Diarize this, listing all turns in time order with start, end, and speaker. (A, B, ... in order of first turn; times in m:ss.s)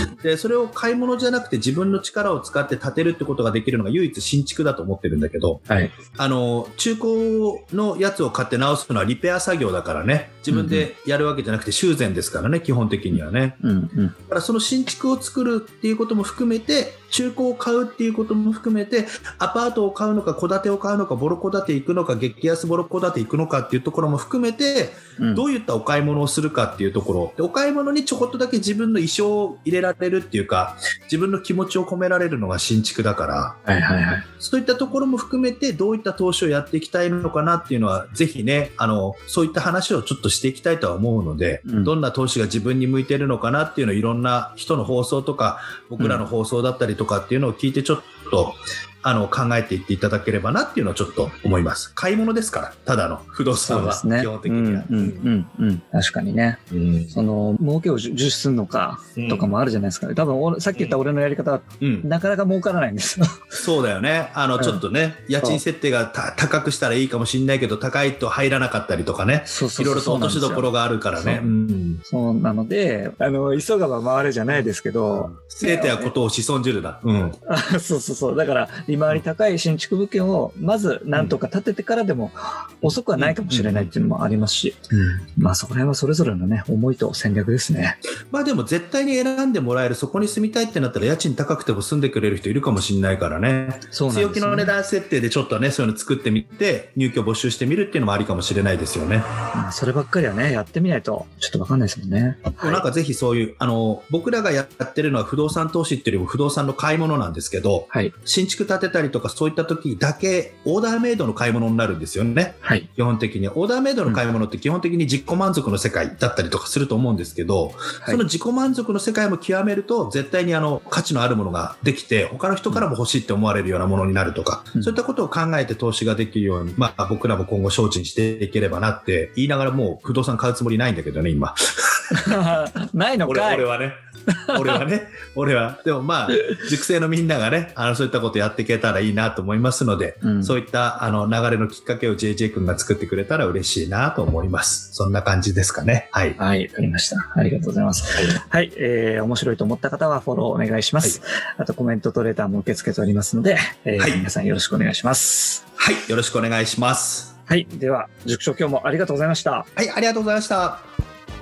0:00.2-0:13.6 A
0:05.7-0:05.9 B
0:10.5-0:10.9 B
0:13.6-0:14.1 B
0:14.3-0:33.6 A
0:25.2-0:25.4 B
0:33.6-0:34.2 B
0:34.4-0:55.3 A
0:41.6-0:41.9 B
0:46.0-0:46.2 B
0:53.6-0:56.6 B
0:56.7-0:57.1 A
0:57.1-1:03.4 B
0:59.2-0:59.5 A
1:01.8-1:02.1 A
1:03.6-1:12.0 A
1:09.4-1:11.5 B
1:12.1-1:16.1 B
1:15.1-1:17.4 A
1:17.5-1:24.8 B
1:22.8-1:23.9 A
1:24.9-1:25.2 A
1:25.4-1:28.0 B
1:28.3-1:39.2 A
1:33.9-1:34.7 B
1:39.5-1:42.8 B
1:42.6-2:12.2 A
1:52.6-1:52.9 B
2:12.1-2:13.7 B
2:13.2-2:26.4 A
2:14.5-2:14.8 B
2:20.2-2:20.6 B
2:26.4-2:35.6 B
2:34.0-2:34.2 A
2:35.8-2:37.3 A
2:37.5-2:39.7 B
2:39.7-2:40.8 A